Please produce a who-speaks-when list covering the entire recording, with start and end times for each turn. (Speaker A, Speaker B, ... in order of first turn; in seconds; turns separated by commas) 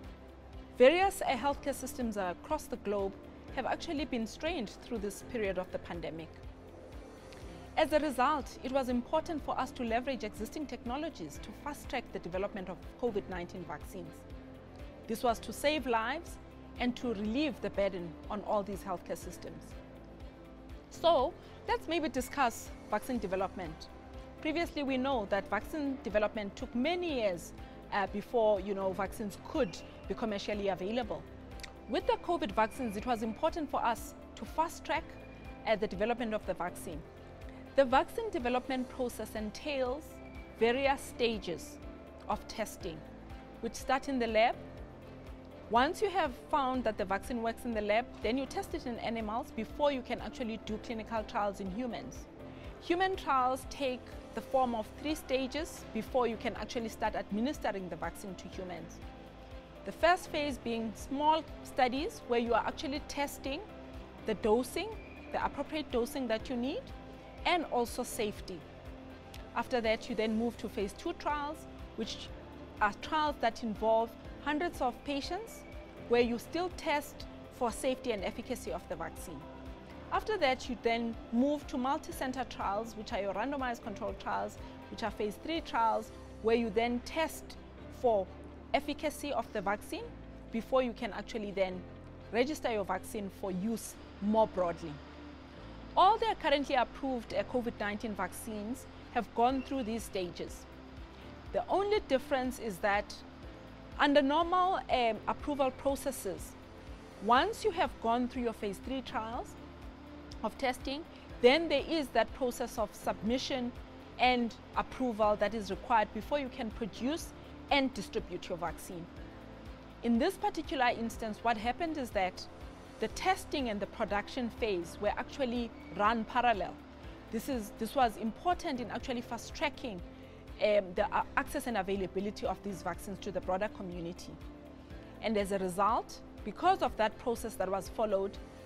Speaker A: 0.7-6.4, Speaker A: 7.8-14.2, Speaker A: 15.1-19.8, Speaker A: 20.9-23.9, Speaker A: 24.4-31.3, Speaker A: 31.9-37.0, Speaker A: 37.7-43.0, Speaker A: 43.6-44.6, Speaker A: 45.7-52.3, Speaker A: 52.8-59.0, Speaker A: 59.8-63.7, Speaker A: 64.2-66.9, Speaker A: 67.4-68.6, Speaker A: 69.5-79.5, Speaker A: 80.1-95.0, Speaker A: 96.0-100.7, Speaker A: 101.5-103.2, Speaker A: 104.0-106.6, Speaker A: 107.2-109.6, Speaker A: 110.4-119.1, Speaker A: 120.0-126.8, Speaker A: 127.3-130.0, Speaker A: 130.6-134.4, Speaker A: 135.2-138.4